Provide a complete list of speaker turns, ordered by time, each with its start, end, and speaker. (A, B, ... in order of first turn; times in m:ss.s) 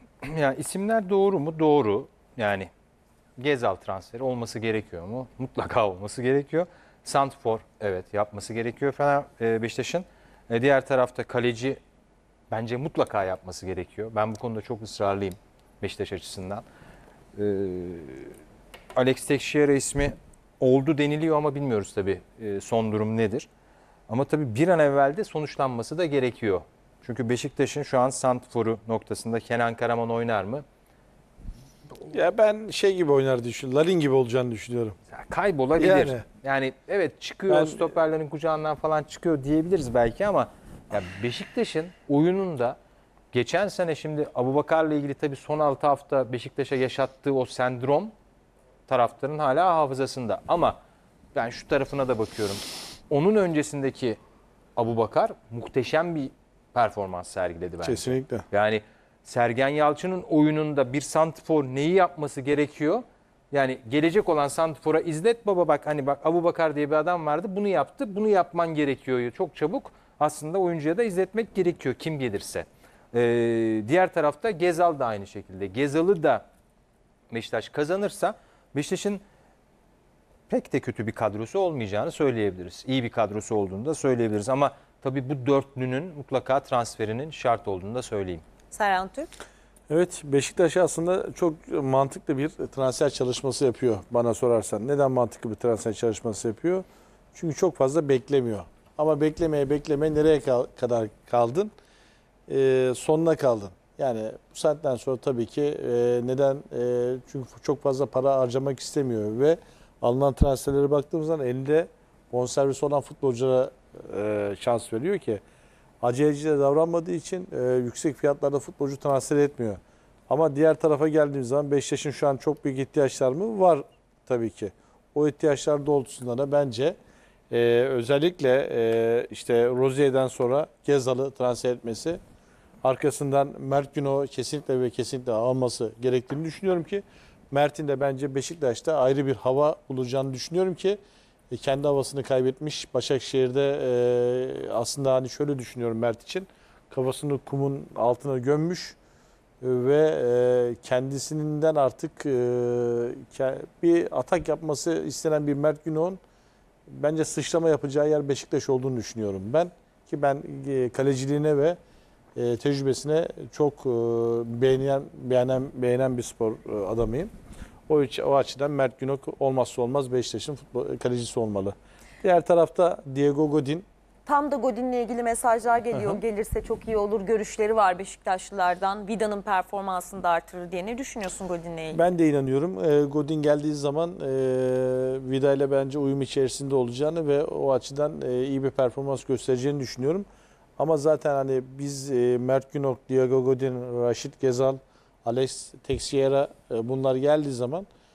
0:00.2-0:02.7 A
0:03.4-0:11.8 A
0:12.5-0:16.6 A
0:17.4-0:18.4 A
0:18.9-0:23.5 A
0:24.1-0:30.6 A
0:32.1-0:35.0 B
0:35.1-0:42.8 A
0:35.8-0:36.2 B
0:37.5-0:37.9 B
0:43.3-0:48.1 A
0:48.9-0:50.8 A
0:51.3-0:54.2 A
0:54.8-1:16.4 A
0:57.8-0:58.5 B
1:17.3-1:19.2 A
1:20.5-1:28.4 A
1:28.7-1:29.3 C
1:29.9-1:41.7 B
1:42.5-1:55.4 B
1:56.0-2:07.0 B
2:07.5-2:12.2 B
2:12.8-2:21.0 B
2:21.5-2:29.0 B
2:29.6-2:36.2 B
2:36.9-2:41.8 B
2:42.3-2:47.3 B
2:47.9-2:53.8 B
2:54.2-3:02.0 C
2:55.9-2:56.2 B
3:01.9-3:10.2 B
3:10.8-3:17.9 B